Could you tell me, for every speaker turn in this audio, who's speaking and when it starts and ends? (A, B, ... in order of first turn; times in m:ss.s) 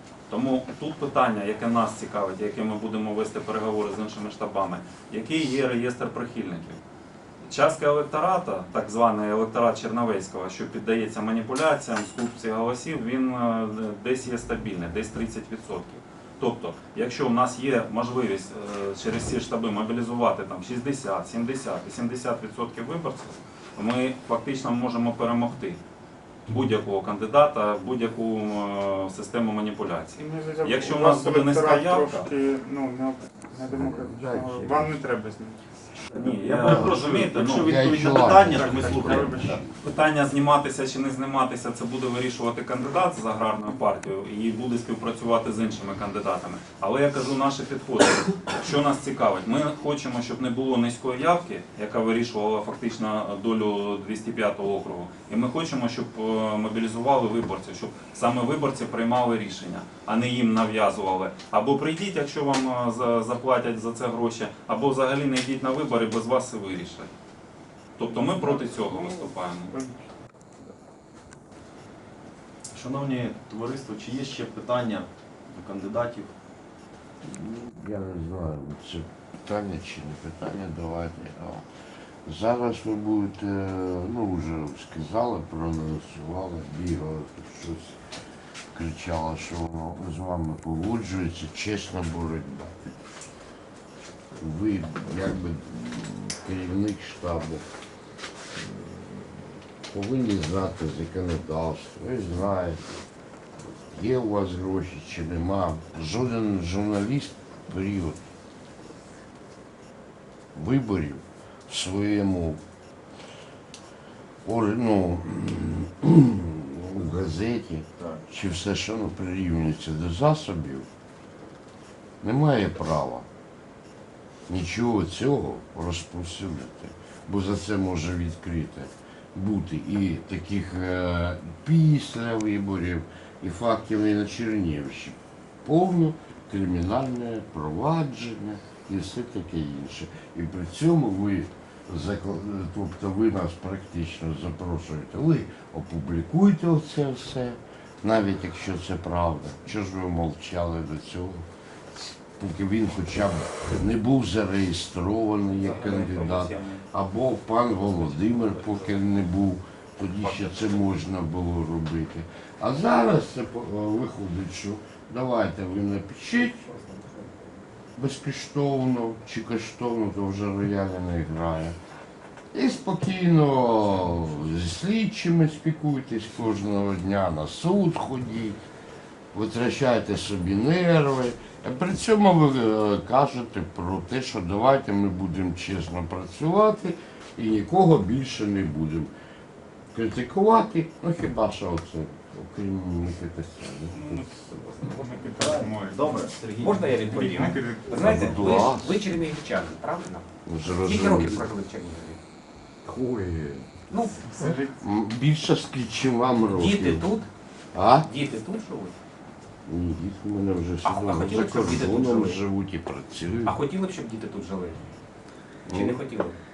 0:00.3-0:06.8 A
0:07.4-0:25.8 A
0:26.5-0:32.3 A
0:30.2-0:35.6 B
0:33.7-0:35.0 C
0:36.1-0:39.6 D
0:36.1-0:38.4 A
0:36.6-0:37.0 C
0:37.6-0:39.6 C
0:38.0-0:39.6 B
0:39.8-1:07.1 A
1:08.0-1:09.8 A
1:08.0-1:10.1 B
1:12.7-1:16.3 D
1:17.2-1:21.6 C
1:22.3-1:28.0 C
1:28.7-1:33.0 C
1:34.4-1:37.6 C
1:38.5-1:42.8 C
1:43.9-1:48.2 C
1:50.5-1:52.6 C
1:54.4-2:00.9 C
2:02.2-2:03.3 C
2:04.5-2:46.7 C
2:35.6-2:36.8 A
2:37.9-2:38.9 A
2:40.3-2:40.6 A
2:46.9-2:47.2 E
2:48.0-2:51.8 C
2:52.5-2:58.6 C
2:59.3-3:09.1 C
3:09.9-3:14.2 C
3:13.9-3:16.3 B
3:15.3-3:17.4 D
3:16.4-3:20.3 E
3:17.1-3:18.7 B
3:17.9-3:19.1 C
3:20.4-3:21.5 C
3:20.9-3:22.2 E
3:22.8-3:23.8 C
3:23.9-3:24.5 E
3:24.2-3:24.8 B
3:24.7-3:27.1 C
3:26.6-3:27.3 E
3:27.7-3:28.1 C
3:28.1-3:29.0 E
3:29.6-3:33.6 C
3:30.8-3:32.3 E
3:33.5-3:34.8 E
3:35.7-3:36.0 C
3:35.7-3:36.4 E